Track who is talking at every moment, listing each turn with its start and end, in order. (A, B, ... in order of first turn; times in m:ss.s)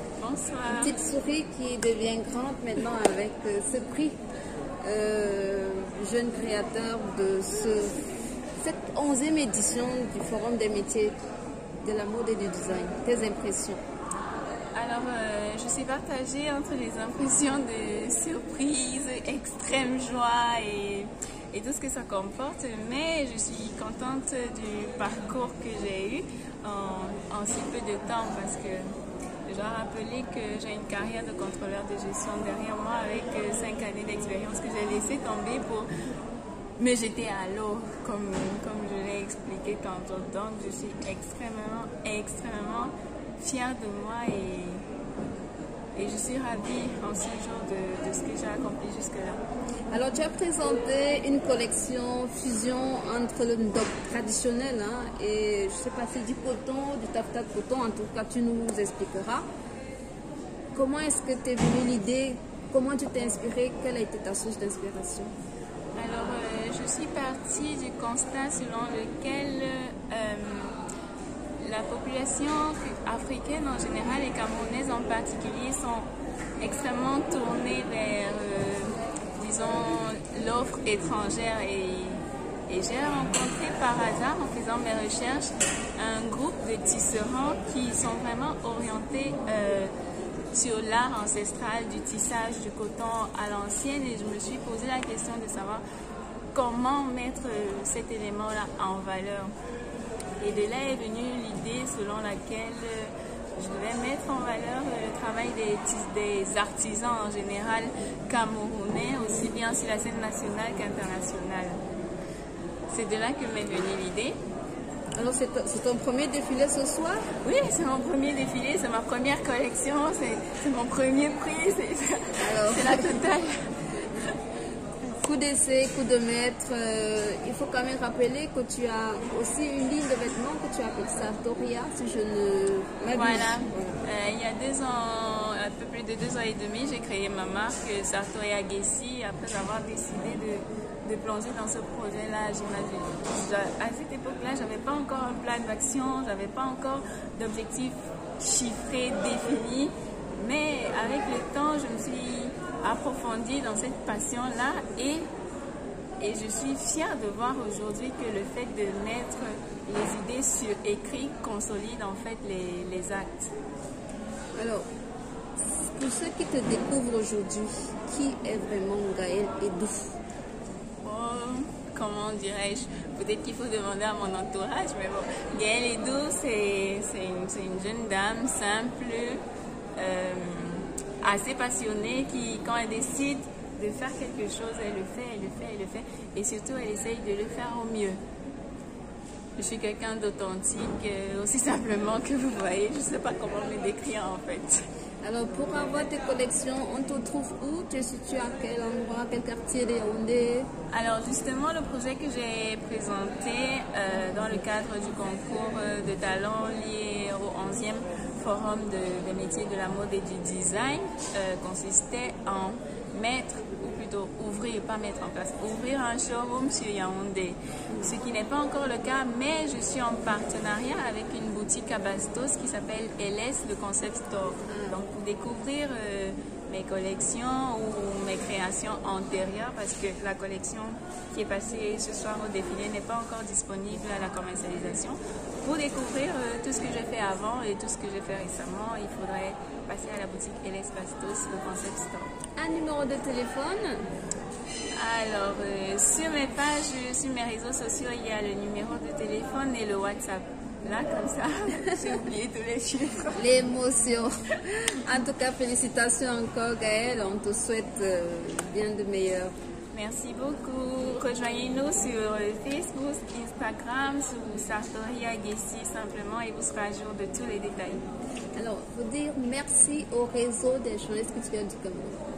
0:00.2-0:00.9 A
0:00.7-0:04.2 B
0:04.8-0:07.9 B
0:08.6-0:11.2 B
0:11.8-0:13.8 B
0:14.7-0:28.9 A
0:29.5-0:35.9 A
0:36.8-0:44.8 A
0:46.0-0:49.4 A
0:49.9-0:59.4 B
1:00.7-1:05.3 B
1:05.9-1:10.8 A
1:11.6-1:16.1 A
1:16.6-1:29.9 A
1:30.5-1:35.8 A
1:36.5-1:39.5 A
1:40.4-1:51.8 A
1:52.9-1:54.4 A
1:55.2-1:57.3 B
1:57.4-2:03.7 A
2:02.4-2:03.2 B
2:05.0-2:14.0 B
2:13.1-2:35.3 A
2:36.2-2:43.5 A
2:44.5-2:44.8 B
2:45.6-2:50.2 B
2:51.0-2:59.4 A
3:00.0-3:08.2 A
3:09.6-3:14.8 A
3:15.2-3:20.7 B
3:20.9-4:02.3 A
3:44.7-3:45.0 B
4:02.6-4:04.0 B
4:05.0-4:13.4 A
4:13.3-4:19.5 B
4:19.9-4:28.0 A
4:28.6-4:32.2 B